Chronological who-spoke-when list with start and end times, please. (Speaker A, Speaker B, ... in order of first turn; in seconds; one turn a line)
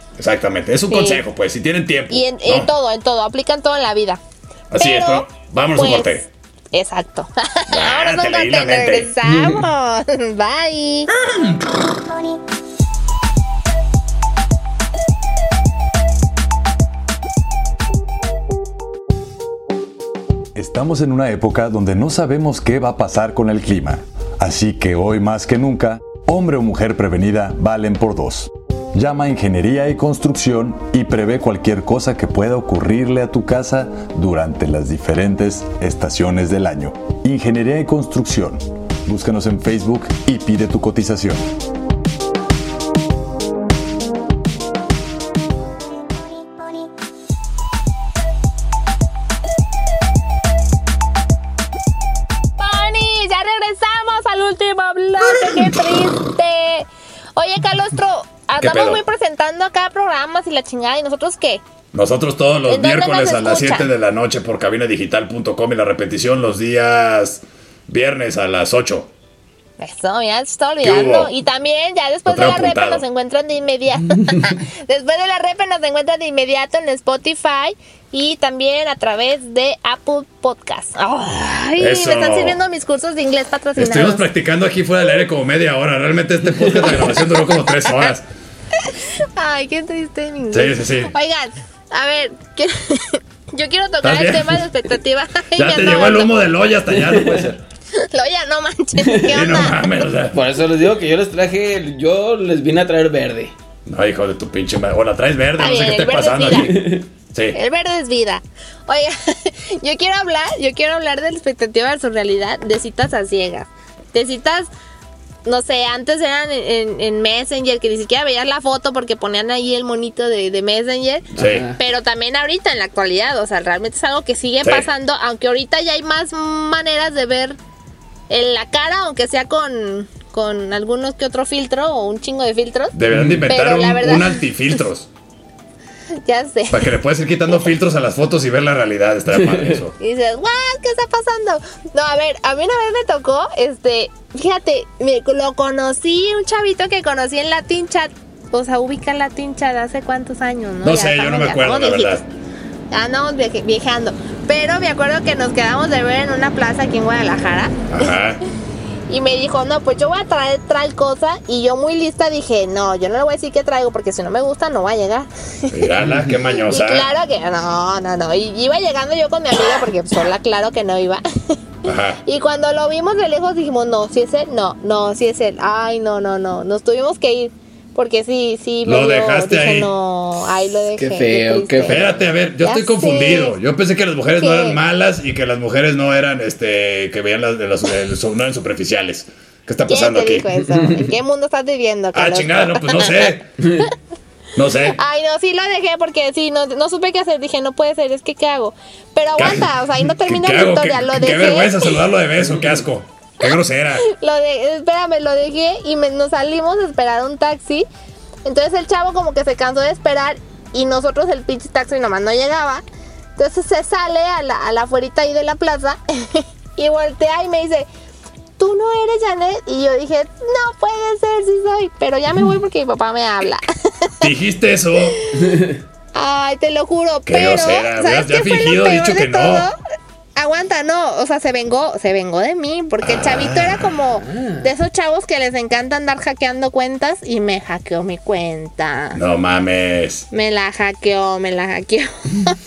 Speaker A: 0.2-2.7
Speaker B: 0.9-1.2
Speaker B: 2.1-4.2
Speaker A: 4.7-6.2
Speaker B: 4.8-6.2
Speaker B: 6.7-11.1
Speaker A: 7.7-9.1
Speaker C: 9.2-9.6
Speaker A: 11.1-11.8
Speaker D: 20.5-41.5
Speaker B: 52.6-61.6
Speaker A: 58.6-59.0
Speaker A: 61.9-69.1
Speaker B: 62.7-63.9
Speaker B: 69.8-84.2
Speaker A: 70.8-71.3
Speaker A: 72.3-73.0
Speaker A: 81.8-82.6
Speaker A: 83.8-88.2
Speaker B: 88.8-96.3
Speaker A: 90.5-91.1
Speaker A: 94.0-94.6
Speaker A: 95.5-97.6
Speaker C: 97.0-97.5
Speaker B: 98.0-99.8
Speaker C: 99.0-99.3
Speaker A: 99.2-100.3
Speaker C: 100.3-103.5
Speaker A: 103.9-107.6
Speaker B: 105.6-107.0
Speaker C: 106.5-107.0
Speaker B: 107.5-114.7
Speaker B: 115.4-127.6
Speaker A: 121.3-121.7
Speaker C: 121.4-121.8
Speaker B: 128.3-132.9
Speaker A: 132.9-135.1
Speaker C: 133.1-133.4
Speaker B: 133.5-134.4
Speaker B: 136.2-136.9
Speaker A: 136.7-139.9
Speaker C: 139.4-139.7
Speaker B: 140.0-152.2
Speaker A: 150.8-152.2
Speaker B: 152.9-158.1
Speaker A: 157.9-158.4
Speaker B: 159.1-165.9
Speaker A: 165.7-167.1
Speaker C: 166.0-166.3
Speaker B: 166.7-171.2
Speaker A: 171.8-172.2
Speaker B: 172.2-182.1
Speaker A: 178.8-179.9
Speaker C: 180.9-182.2
Speaker A: 181.8-190.5
Speaker B: 182.6-183.6
Speaker B: 184.4-184.8
Speaker B: 189.9-193.2
Speaker C: 190.6-191.1
Speaker A: 192.1-193.5
Speaker A: 194.6-195.0
Speaker B: 194.8-202.0
Speaker A: 199.4-204.0
Speaker B: 204.0-207.9
Speaker B: 208.4-212.8
Speaker B: 213.4-217.9
Speaker B: 218.6-223.6
Speaker A: 224.2-225.2
Speaker B: 225.2-225.5
Speaker C: 225.3-225.8
Speaker B: 226.1-229.7
Speaker A: 227.3-229.7
Speaker B: 230.3-239.2
Speaker A: 233.0-233.9
Speaker C: 234.2-234.7
Speaker A: 239.1-240.3
Speaker B: 240.3-242.6